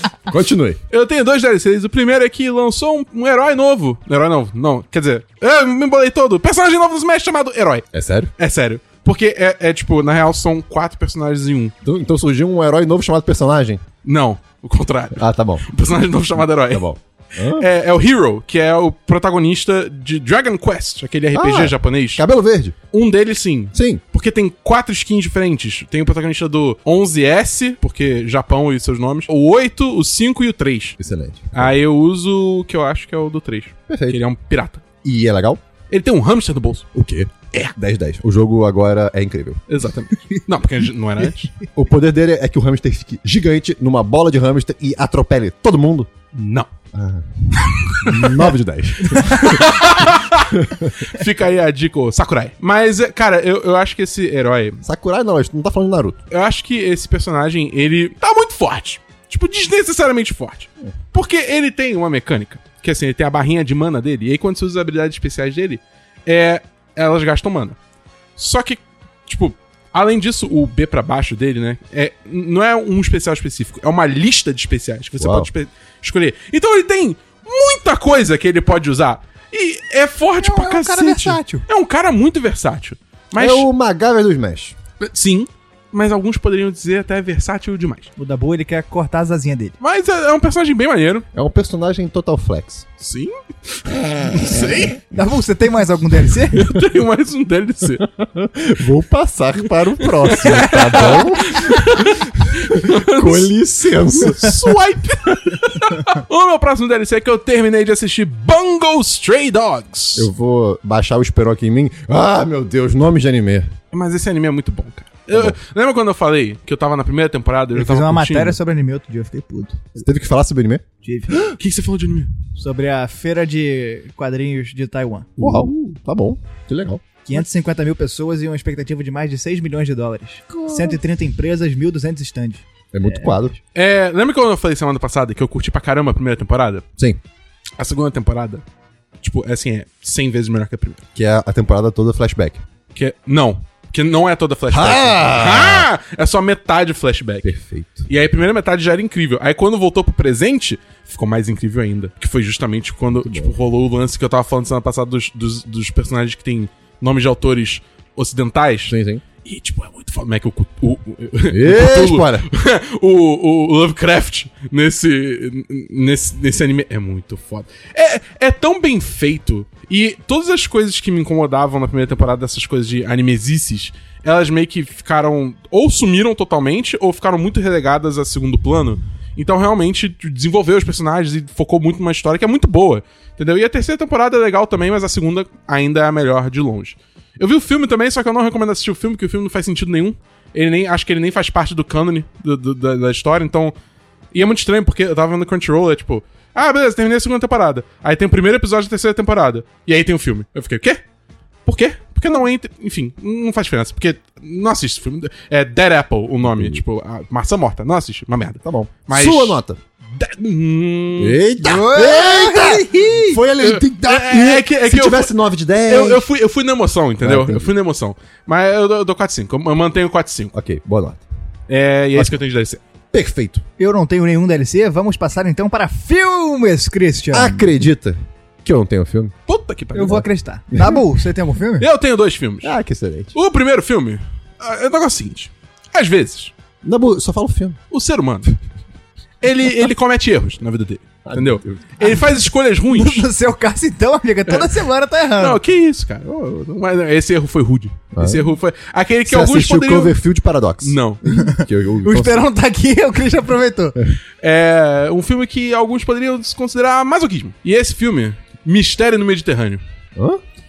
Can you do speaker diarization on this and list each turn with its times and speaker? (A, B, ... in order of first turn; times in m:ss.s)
0:00.3-0:00.8 A
0:00.9-0:07.9 B
0:07.9-0:08.3 A
0:08.4-0:11.7 B
0:11.8-0:13.8 A
0:14.0-0:16.9 B
0:15.2-0:15.7 A
0:16.7-0:17.7 A
0:17.4-0:22.2 B
0:21.3-0:22.8 A
0:22.9-0:31.0 B
0:23.7-0:24.0 A
0:31.0-0:31.7 A
0:31.5-0:34.8 B
0:33.9-0:34.2 A
0:35.0-0:35.6 A
0:35.9-0:36.9 B
0:36.9-0:39.6 A
0:39.7-0:41.5 B
0:41.8-0:46.1 A
0:46.3-0:46.7 B
0:46.9-0:49.7 A
0:47.6-0:48.4 B
0:49.1-0:54.8 B
0:50.5-0:50.9 A
0:54.8-0:56.2 A
0:56.3-1:07.8 B
1:08.4-1:23.7 B
1:15.2-1:15.5 A
1:20.4-1:21.6 C
1:23.4-1:24.8 A
1:25.0-1:28.1 B
1:28.2-1:29.8 C
1:29.8-1:31.2 B
1:31.3-1:32.9 A
1:33.0-1:35.0 B
1:34.0-1:34.8 A
1:35.1-1:36.6 C
1:36.5-1:38.1 B
1:38.2-1:44.7 A
1:40.0-1:50.3 B
1:40.9-1:41.4 C
1:50.2-1:53.7 A
1:53.9-1:58.6 B
1:55.3-1:55.6 A
1:57.8-2:00.0 C
2:00.0-2:00.8 A
2:01.0-2:01.4 C
2:01.4-2:02.3 B
2:02.6-2:05.4 C
2:05.4-2:07.0 A
2:05.4-2:05.7 B
2:07.2-2:13.4 C
2:12.9-2:13.6 A
2:13.8-2:16.9 B
2:17.8-2:18.6 B
2:19.2-2:21.0 B
2:21.2-2:22.6 A
2:22.9-2:27.5 B
2:24.7-2:25.9 A
2:27.4-2:28.1 A
2:28.1-3:13.7 B
2:33.2-2:33.5 A
2:38.9-2:39.2 A
2:41.5-2:42.5 A
3:14.3-3:21.0 B
3:21.7-3:29.6 B
3:26.4-3:26.8 A
3:28.6-3:29.8 A
3:30.1-3:31.4 B
3:31.2-3:36.2 A
3:31.6-3:33.4 C
3:33.6-3:40.5 B
3:37.2-3:37.7 A
3:40.5-3:41.2 A
3:41.7-3:42.8 B
3:43.1-3:43.6 A
3:43.8-3:47.7 C
3:47.3-3:49.3 A
3:49.5-3:50.2 B
3:49.9-3:51.9 C
3:50.7-3:51.0 A
3:51.8-3:52.7 B
3:52.6-3:53.4 A
3:53.3-3:56.5 B
3:56.8-3:57.8 A
3:57.9-3:58.5 B
3:59.4-4:03.3 B
4:01.2-4:01.8 A
4:02.9-4:05.6 C
4:04.5-4:10.2 B
4:08.1-4:08.5 A
4:09.2-4:12.5 A
4:10.8-4:11.2 B
4:11.3-4:14.0 C
4:14.4-4:19.8 B
4:20.2-4:20.4 A